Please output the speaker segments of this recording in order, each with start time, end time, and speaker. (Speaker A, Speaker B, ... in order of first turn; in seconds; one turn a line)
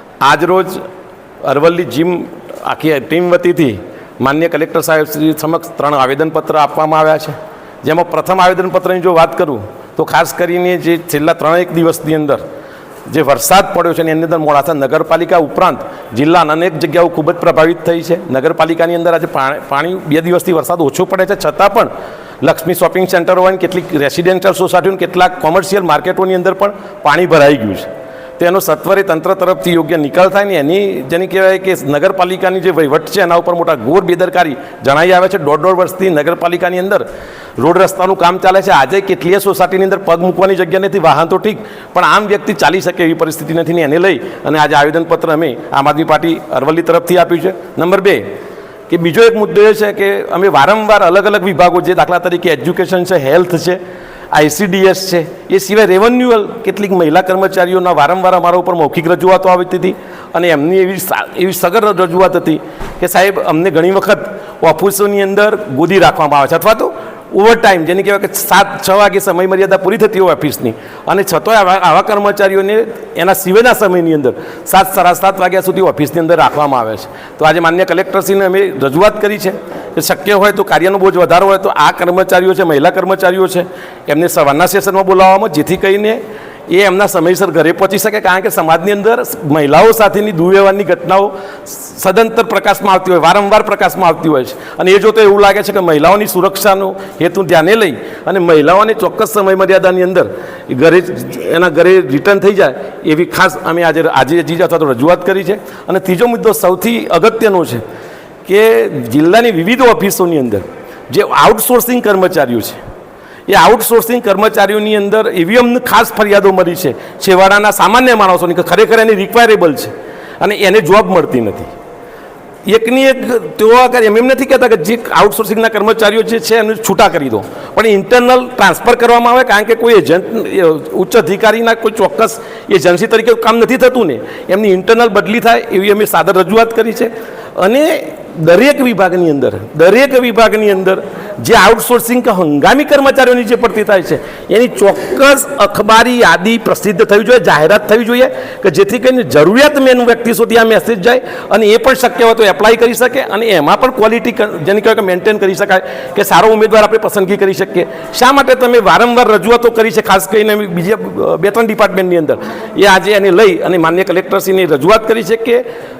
Speaker A: 0.2-0.8
Speaker A: 1.4-12.4
Speaker A: 13.1-21.9
Speaker A: 22.4-37.1
Speaker A: 37.6-48.2
Speaker A: 48.9-53.8
Speaker A: 54.3-107.8
Speaker A: 108.5-112.8
Speaker A: 113.5-121.7
Speaker A: 122.7-165.6